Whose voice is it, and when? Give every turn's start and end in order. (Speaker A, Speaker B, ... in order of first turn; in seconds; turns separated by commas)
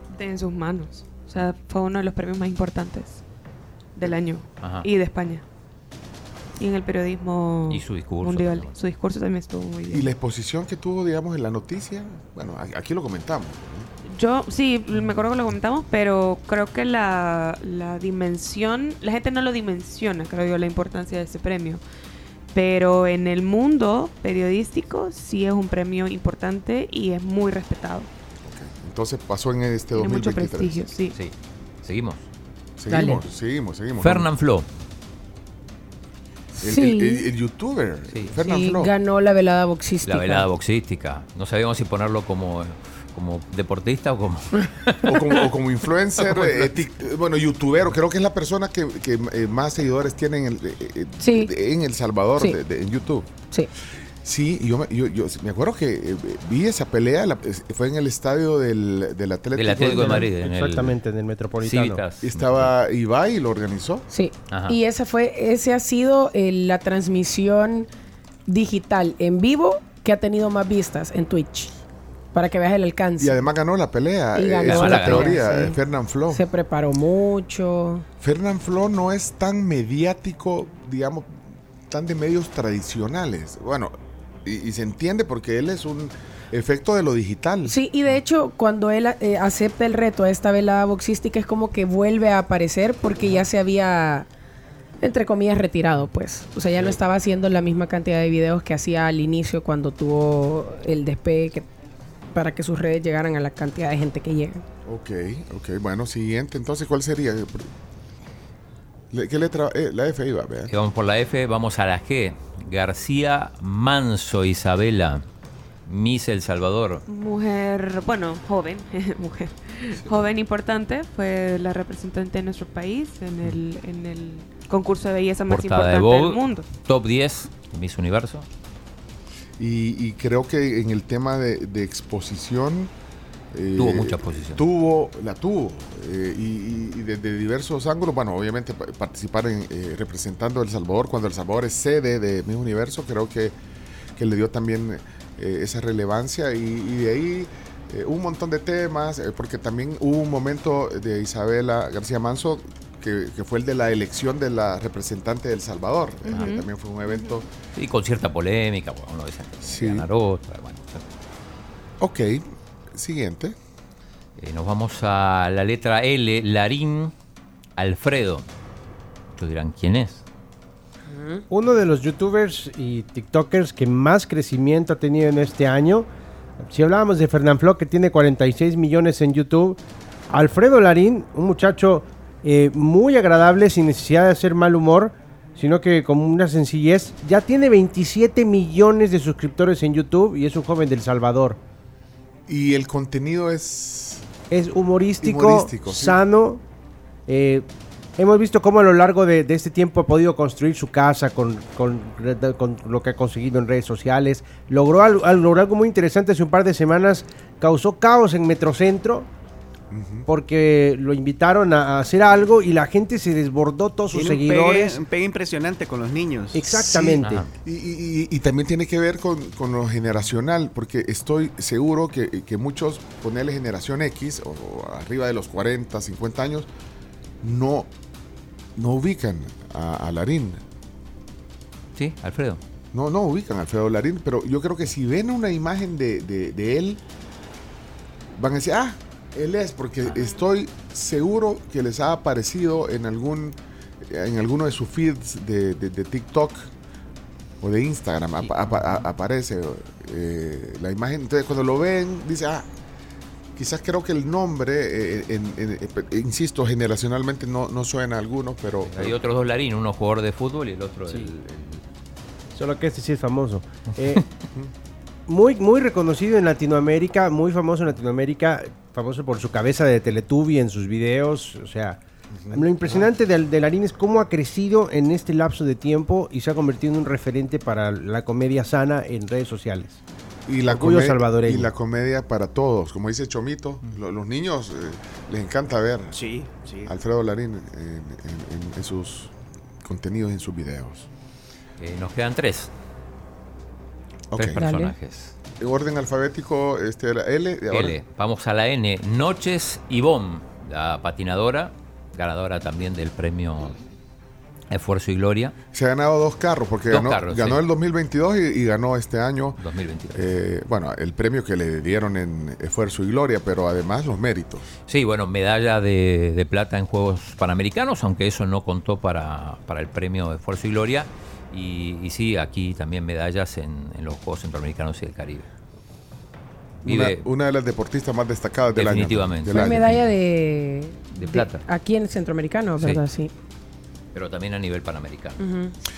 Speaker A: 0.1-3.2, Speaker A: 4.0-5.4, Speaker B: 4.6-4.8, Speaker A: 6.6-10.1, Speaker B: 7.7-8.7, Speaker C: 9.9-13.9, Speaker A: 14.1-21.8, Speaker A: 22.5-28.1, Speaker C: 28.4-30.8, Speaker A: 29.9-31.1, Speaker B: 31.1-32.2, Speaker C: 32.8-34.3, Speaker D: 32.9-33.2, Speaker B: 34.0-34.7, Speaker D: 36.6-37.2, Speaker C: 36.6-38.9, Speaker D: 38.4-40.5, Speaker B: 40.0-45.4, Speaker C: 45.0-53.3, Speaker B: 46.2-46.6, Speaker D: 51.2-51.5, Speaker C: 54.2-60.3, Speaker B: 59.5-61.0, Speaker E: 59.8-62.0, Speaker B: 61.6-62.7, Speaker C: 62.2-64.0, Speaker D: 64.1-67.9, Speaker B: 64.5-64.8, Speaker D: 68.5-71.7, Speaker D: 72.3-73.5, Speaker C: 73.2-76.4, Speaker D: 74.3-75.8, Speaker B: 74.6-75.4, Speaker D: 76.3-78.0, Speaker C: 78.2-83.9, Speaker C: 84.4-87.7, Speaker D: 87.7-94.3, Speaker D: 95.0-101.7, Speaker D: 102.3-104.6, Speaker C: 104.8-107.7, Speaker C: 109.1-110.7, Speaker B: 110.7-115.2, Speaker B: 115.8-117.0, Speaker A: 117.1-126.7, Speaker B: 125.5-128.5, Speaker C: 129.6-132.9, Speaker C: 133.5-143.5, Speaker B: 133.8-134.6, Speaker C: 144.2-157.5, Speaker A: 156.3-156.7, Speaker B: 157.7-161.0, Speaker C: 159.6-160.1, Speaker C: 162.0-163.6, Speaker B: 164.4-167.1, Speaker B: 167.8-168.5, Speaker B: 169.3-170.2, Speaker D: 171.1-171.4, Speaker E: 171.5-176.1, Speaker E: 176.6-179.8, Speaker E: 180.3-191.6, Speaker C: 192.5-194.2, Speaker E: 194.5-196.6, Speaker C: 195.2-196.2, Speaker E: 197.3-209.3, Speaker C: 209.9-210.3, Speaker E: 210.3-215.0, Speaker F: 214.1-216.7, Speaker E: 216.5-217.4, Speaker C: 216.7-226.7, Speaker B: 217.2-217.5, Speaker C: 227.4-227.9, Speaker C: 228.8-230.6, Speaker B: 231.9-232.6, Speaker C: 232.9-237.0, Speaker C: 238.3-246.7, Speaker A: 240.1-240.4, Speaker C: 247.6-252.7, Speaker B: 248.4-249.0, Speaker C: 253.6-259.1, Speaker B: 258.9-261.8, Speaker E: 262.5-264.2, Speaker E: 265.3-272.0, Speaker C: 272.3-273.0, Speaker E: 272.5-280.0, Speaker C: 280.5-286.1, Speaker E: 280.6-281.7, Speaker F: 286.1-286.9, Speaker C: 286.9-289.3, Speaker C: 289.8-291.1, Speaker B: 291.8-292.7, Speaker C: 294.3-294.6, Speaker B: 294.4-295.3, Speaker D: 294.6-294.9, Speaker C: 295.6-298.0, Speaker B: 297.7-303.8, Speaker B: 304.7-305.5, Speaker C: 305.7-309.6, Speaker B: 306.9-307.6, Speaker B: 309.6-310.4, Speaker C: 310.1-314.7, Speaker B: 314.9-325.5, Speaker B: 326.8-327.2, Speaker C: 326.8-329.9, Speaker B: 328.7-330.1, Speaker D: 329.5-333.3, Speaker B: 331.1-331.6, Speaker B: 334.1-335.4, Speaker D: 335.4-335.7